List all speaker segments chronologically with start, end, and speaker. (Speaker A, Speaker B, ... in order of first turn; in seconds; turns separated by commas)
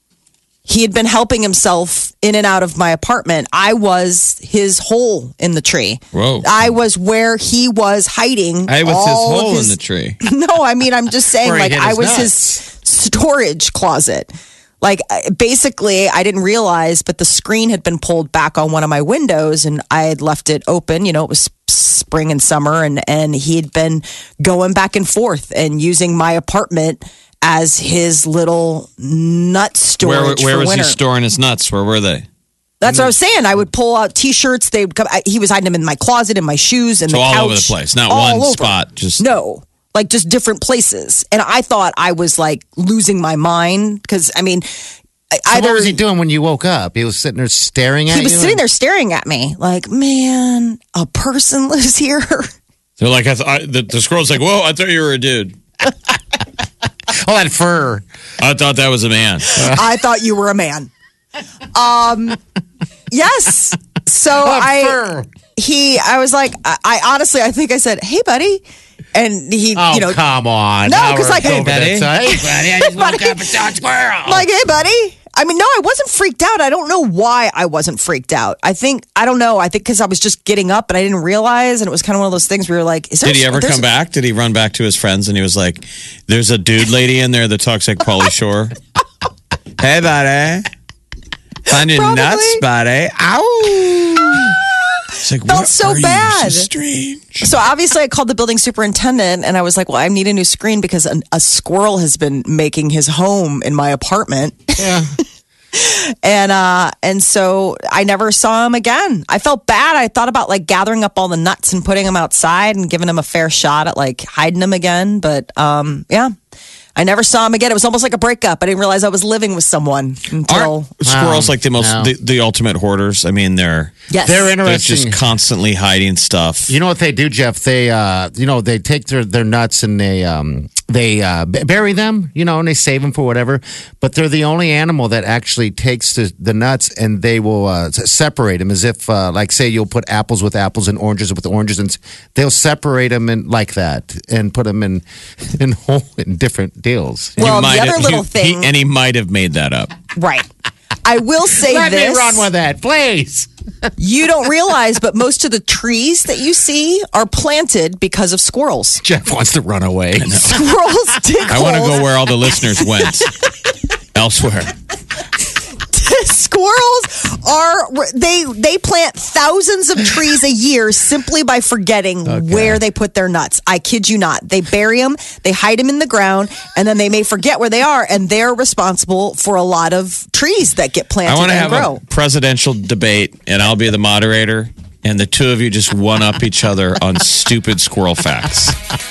Speaker A: 0.6-31.0, Speaker B: 6.1-6.7, Speaker B: 8.7-10.2, Speaker C: 11.4-12.5, Speaker B: 30.0-32.2, Speaker A: 32.8-44.7, Speaker B: 37.1-39.2, Speaker A: 45.3-46.0, Speaker C: 45.5-48.6, Speaker A: 48.1-52.5, Speaker B: 53.0-55.5, Speaker C: 57.2-58.0, Speaker B: 58.4-59.6, Speaker A: 59.5-60.9, Speaker A: 61.7-62.4, Speaker A: 63.1-65.0, Speaker C: 64.4-65.3, Speaker A: 65.5-68.6, Speaker A: 69.1-70.2, Speaker C: 69.7-74.5, Speaker A: 70.8-71.7, Speaker B: 71.4-72.1, Speaker A: 72.2-73.6, Speaker A: 74.2-83.8, Speaker B: 83.2-88.7, Speaker B: 89.8-90.7, Speaker B: 91.7-94.5, Speaker A: 91.7-92.6, Speaker B: 95.2-97.5, Speaker A: 95.5-96.7, Speaker A: 97.4-105.0, Speaker C: 104.8-105.1, Speaker A: 105.7-116.3, Speaker A: 117.0-120.9, Speaker B: 120.5-123.9, Speaker C: 121.0-122.1, Speaker A: 124.1-124.5, Speaker C: 124.2-125.2, Speaker B: 124.6-126.8, Speaker C: 126.7-145.0, Speaker C: 145.6-147.6, Speaker B: 147.4-149.9, Speaker A: 147.4-148.7, Speaker A: 150.1-150.5, Speaker A: 151.0-152.5, Speaker C: 151.6-153.5, Speaker A: 154.0-159.0, Speaker C: 159.0-160.4, Speaker B: 160.2-160.7, Speaker A: 160.3-162.1, Speaker B: 161.5-163.4, Speaker B: 164.1-164.7, Speaker A: 165.9-182.0, Speaker C: 172.2-172.8, Speaker B: 181.2-188.8